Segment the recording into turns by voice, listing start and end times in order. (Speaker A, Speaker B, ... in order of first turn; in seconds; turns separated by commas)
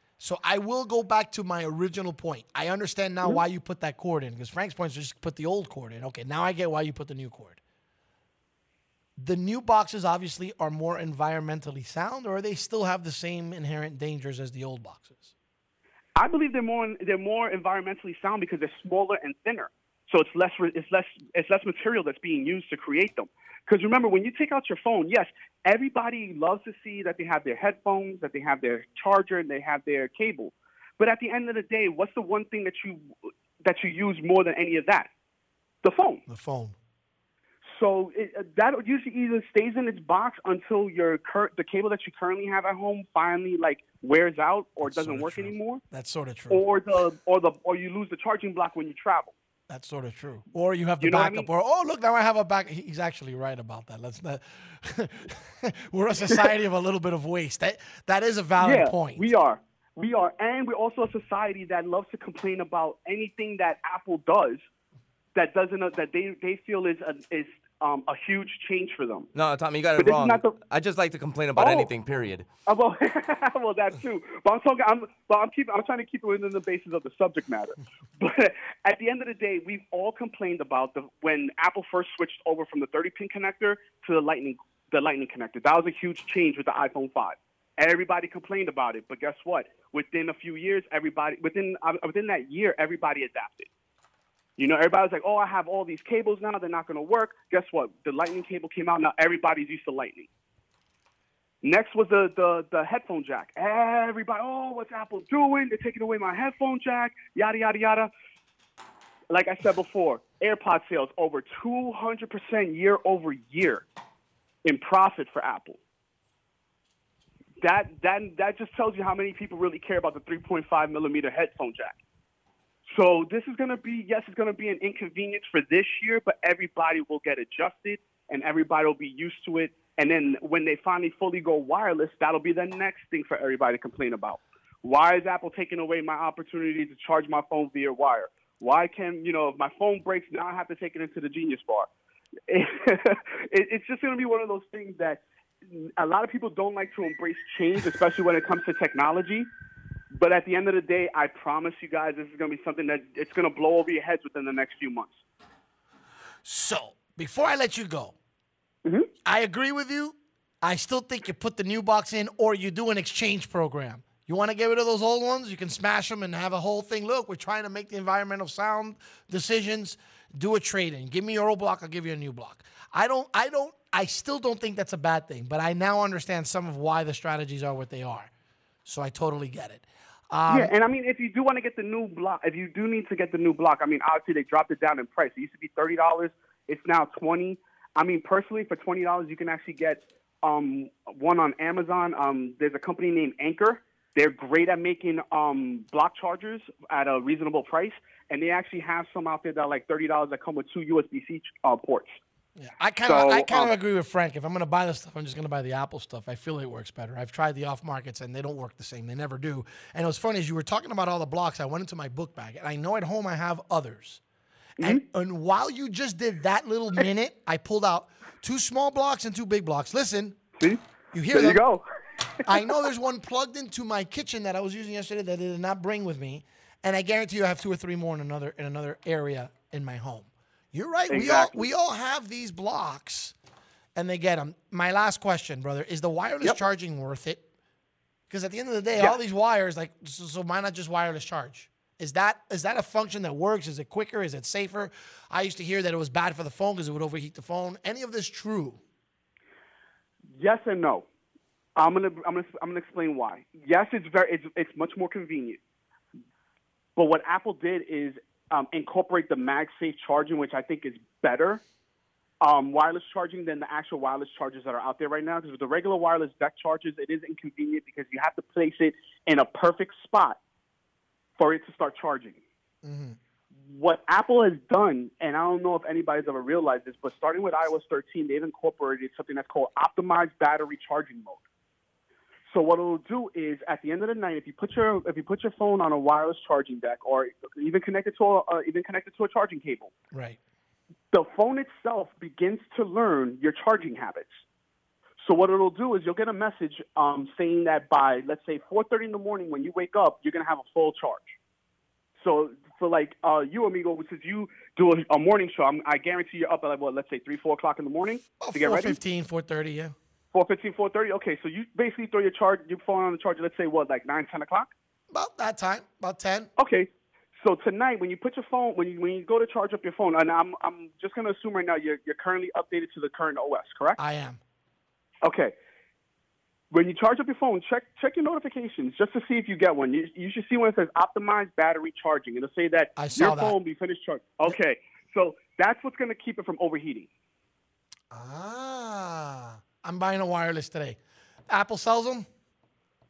Speaker A: 0.2-7.6, Speaker A: 9.2-15.3, Speaker B: 16.2-35.1, Speaker B: 35.8-36.2, Speaker A: 36.3-36.8, Speaker B: 37.6-45.8, Speaker A: 44.8-46.7, Speaker B: 46.5-49.3, Speaker A: 49.7-59.3, Speaker B: 51.0-51.5, Speaker B: 58.6-64.7, Speaker B: 65.3-69.3, Speaker C: 69.3-72.5, Speaker B: 70.0-70.6, Speaker B: 71.6-71.9, Speaker B: 72.7-93.7, Speaker B: 94.6-100.3, Speaker B: 101.6-108.1, Speaker B: 109.3-113.8, Speaker B: 114.7-115.8, Speaker B: 117.6-122.0, Speaker B: 122.9-141.9, Speaker B: 142.5-149.5, Speaker B: 150.1-155.2, Speaker A: 156.4-158.2, Speaker A: 159.2-178.3, Speaker A: 178.8-180.7, Speaker B: 180.5-202.2, Speaker A: 202.6-214.2, Speaker B: 203.1-203.7, Speaker A: 214.8-220.4, Speaker A: 221.1-221.6, Speaker B: 221.3-221.8, Speaker A: 222.4-233.3, Speaker B: 222.5-222.8, Speaker B: 231.1-231.6, Speaker A: 233.9-237.4, Speaker A: 238.3-248.8, Speaker B: 250.4-251.1, Speaker B: 251.8-255.6, Speaker B: 257.0-261.6, Speaker B: 262.4-270.4, Speaker B: 271.4-272.4, Speaker A: 272.8-273.2, Speaker B: 273.6-281.4, Speaker B: 282.5-289.9, Speaker A: 290.1-290.4, Speaker B: 291.1-294.4, Speaker B: 295.2-301.4, Speaker B: 302.2-309.0, Speaker A: 308.4-309.9, Speaker B: 310.3-314.7, Speaker A: 315.1-316.5, Speaker B: 316.6-324.0, Speaker A: 324.0-324.4, Speaker B: 325.2-325.6, Speaker B: 326.7-337.1, Speaker A: 333.0-333.6, Speaker A: 338.1-342.3